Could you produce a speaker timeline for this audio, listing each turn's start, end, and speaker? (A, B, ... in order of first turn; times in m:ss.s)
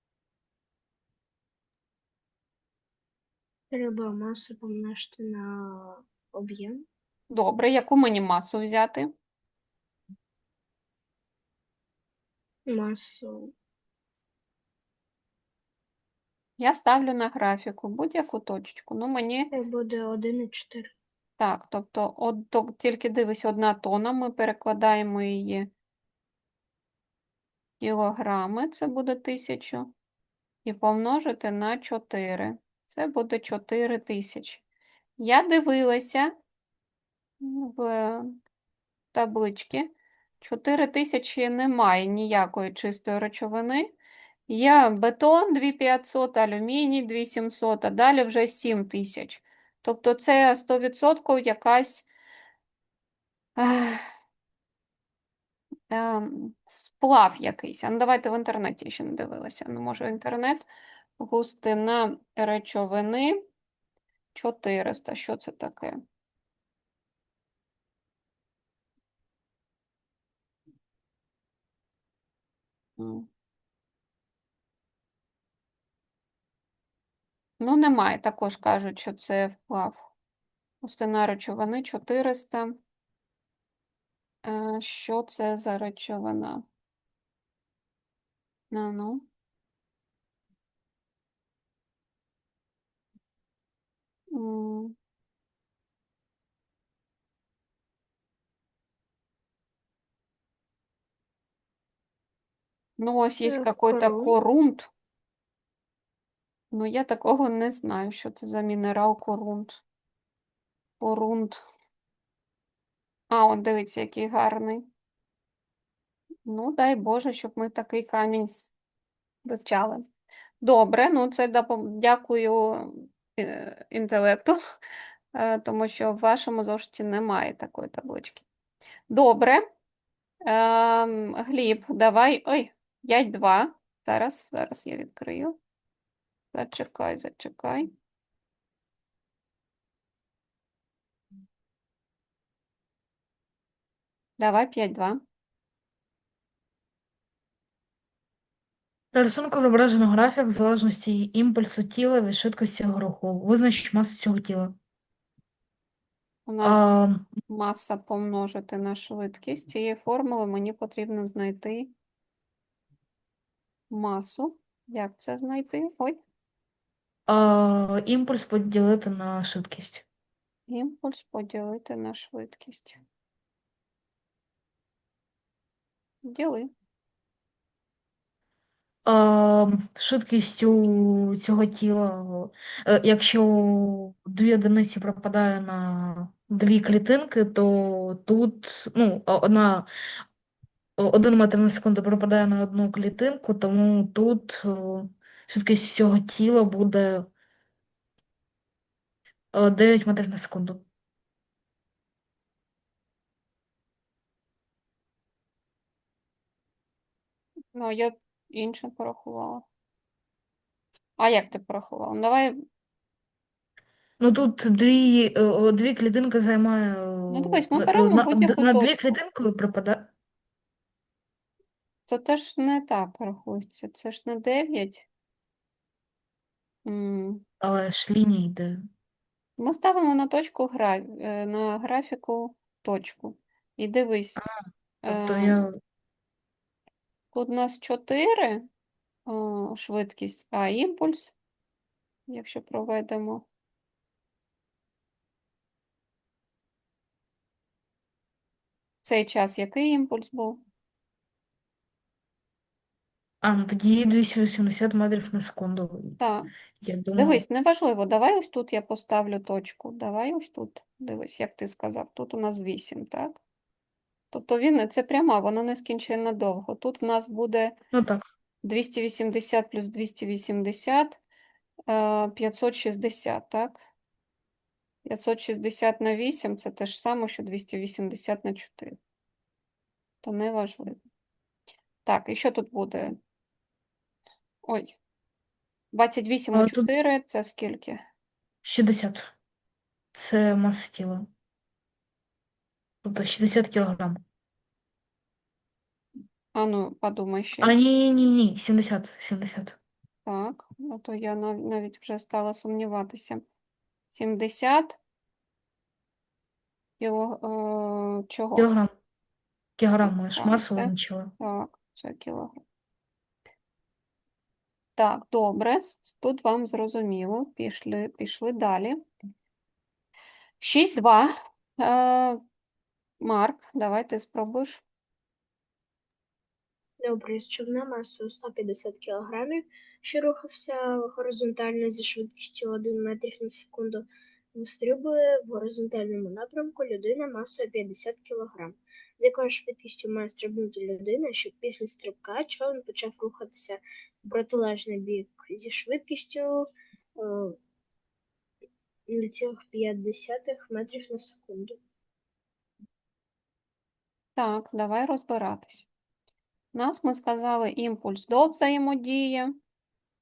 0:03.7-0:06.8 A
0:07.3-0:09.1 B
0:12.7-0:13.5 A
0:16.6-0:19.5 B
0:19.5-0:20.9 A
0:21.4-0:25.7 B
0:27.8-0:29.9 B
0:30.6-0:34.6 B
0:35.2-0:36.3 B
0:37.4-0:38.4 B
0:39.1-0:39.9 B
0:40.4-0:43.9 B
0:44.5-0:52.1 B
0:53.6-0:54.0 B
0:55.9-1:00.7 B
1:01.2-1:03.4 B
1:04.3-1:06.0 B
1:13.0-1:13.3 B
1:17.6-1:20.1 B
1:20.8-1:22.8 B
1:24.4-1:26.7 B
1:28.7-1:29.3 B
1:34.3-1:34.9 B
1:43.0-1:44.9 B
1:43.4-1:44.4 A
1:46.7-1:49.8 B
1:51.0-1:51.6 B
1:53.3-1:54.9 B
1:56.5-1:58.7 B
1:59.4-2:00.0 B
2:00.6-2:04.6 B
2:05.3-2:08.5 B
2:09.1-2:09.6 B
2:10.5-2:15.6 B
2:16.5-2:17.9 B
2:24.4-2:25.2 B
2:29.1-2:34.8 C
2:36.5-2:36.9 B
2:36.6-2:37.3 C
2:37.5-2:41.9 B
2:43.9-2:46.2 B
2:47.3-2:50.0 C
2:50.7-2:53.0 B
2:56.2-2:56.7 B
2:59.1-3:09.9 C
3:11.0-3:17.3 C
3:19.5-3:20.9 C
3:27.7-3:29.7 B
3:31.2-3:32.6 B
3:34.2-3:40.1 C
3:37.3-3:39.2 B
3:42.1-3:45.1 B
3:46.8-3:47.4 B
3:47.6-3:48.8 C
3:49.6-3:54.4 B
3:55.0-3:55.7 B
3:55.1-3:55.8 C
3:57.3-3:58.7 B
3:59.3-4:01.4 B
4:02.3-4:03.5 B
4:09.0-4:10.6 B
4:13.4-4:16.2 C
4:16.2-4:16.5 B
4:16.8-4:17.4 C
4:17.2-4:23.4 B
4:24.3-4:27.7 B
4:27.9-4:28.2 C
4:28.6-4:31.2 B
4:31.9-4:33.8 B
4:35.0-4:39.0 B
4:40.2-4:41.0 B
4:42.0-4:43.2 B
4:44.6-4:45.0 B
4:45.9-4:48.0 B
4:46.5-4:46.9 C
4:48.6-4:49.3 C
4:50.1-4:51.3 C
4:53.0-4:54.2 C
4:56.5-4:57.8 B
4:57.6-4:59.8 C
5:00.2-5:03.4 B
5:04.1-5:05.0 B
5:07.0-5:08.7 B
5:08.6-5:08.9 C
5:09.8-5:11.3 C
5:10.0-5:12.6 B
5:15.0-5:19.0 B
5:20.6-5:22.4 B
5:23.2-5:24.8 B
5:27.0-5:46.6 A
5:47.2-5:47.5 A
5:49.1-5:51.8 A
5:54.4-5:55.9 B
5:56.7-5:59.6 B